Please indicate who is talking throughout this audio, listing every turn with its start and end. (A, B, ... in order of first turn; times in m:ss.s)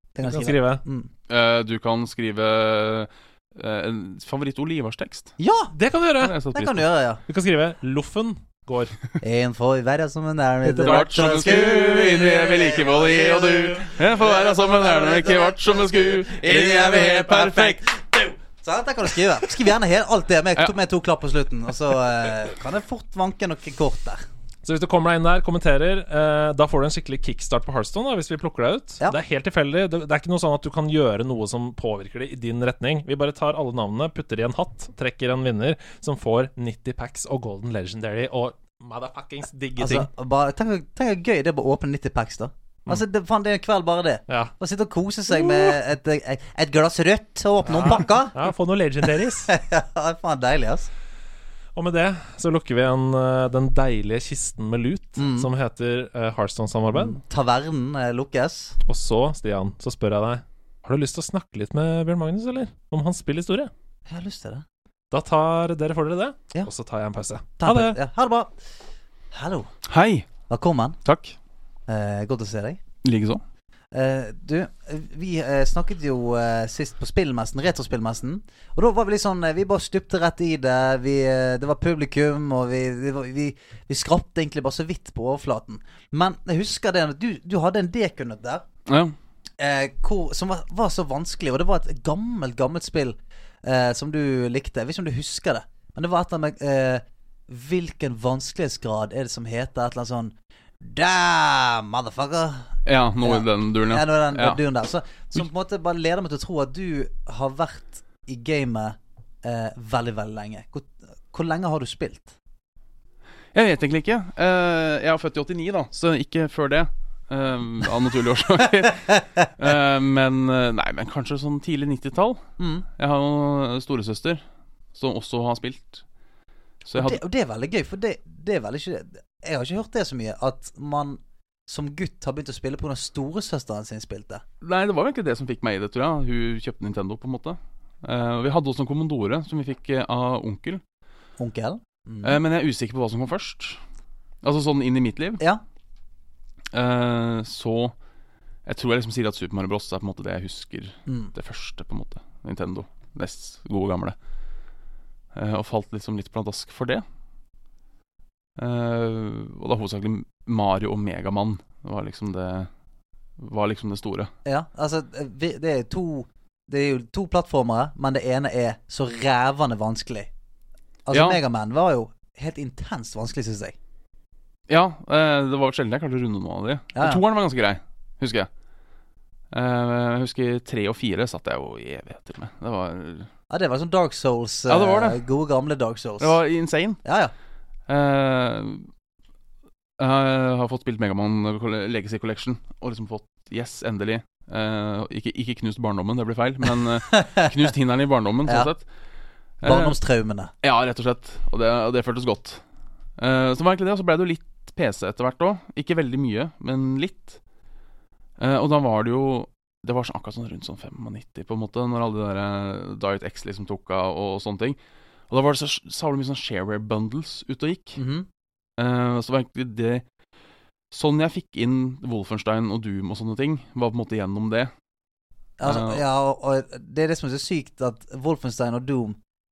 0:00.1-0:01.1 A
0:00.2-0:00.8 B
0:01.3-0:05.3 C
0:05.4-0:05.7 A
0:05.7-0:06.3 B
0:06.2-0:06.8 C
0:06.5-0:07.2 A
0:07.3-0:09.0 B
0:09.2-0:24.2 A
0:10.7-0:11.5 B
0:10.8-0:17.8 C
0:24.6-0:40.1 B
0:39.8-0:48.4 A
0:44.3-0:44.5 B
0:45.3-0:45.8 B
0:47.6-0:49.5 B
0:49.0-0:50.9 A
0:51.7-0:57.2 B
0:55.2-0:55.5 A
0:56.9-0:58.8 A
0:58.8-1:03.7 B
1:04.1-1:04.6 A
1:05.1-1:08.0 B
1:07.6-1:08.5 A
1:09.3-1:09.7 A
1:09.9-1:10.3 C
1:10.5-1:11.0 A
1:11.0-1:11.3 C
1:11.9-1:12.8 A
1:13.0-1:13.4 C
1:13.9-1:28.6 A
1:28.9-1:29.1 C
1:29.6-1:42.7 A
1:42.8-1:44.6 C
1:43.2-1:52.3 A
1:53.5-2:02.4 C
2:02.6-2:02.8 A
2:03.0-2:04.4 C
2:04.9-2:06.0 C
2:06.8-2:07.2 C
2:06.9-2:14.4 A
2:14.6-2:20.8 C
2:21.4-2:22.4 A
2:22.2-2:23.8 C
2:24.4-2:25.4 C
2:26.7-2:27.9 C
2:28.6-2:34.2 C
2:35.3-2:37.0 C
2:38.6-2:42.7 C
2:43.4-2:44.3 C
2:44.4-2:50.3 A
2:51.0-2:53.7 A
2:51.1-2:51.4 C
2:54.7-2:58.5 C
2:56.9-2:57.2 A
2:59.5-3:03.3 C
3:03.5-3:06.4 A
3:04.7-3:05.2 C
3:06.2-3:07.0 C
3:07.0-3:07.3 A
3:07.9-3:08.9 C
3:10.0-3:18.8 C
3:17.1-3:17.5 A
3:19.6-3:19.9 C
3:19.6-3:20.5 A
3:20.6-3:22.6 C
3:23.2-3:27.4 C
3:28.4-3:34.8 C
3:35.3-3:38.0 C
3:38.0-3:38.3 A
3:38.8-3:40.0 C
3:40.9-3:44.7 C
3:45.6-3:49.2 A
3:45.6-3:46.0 C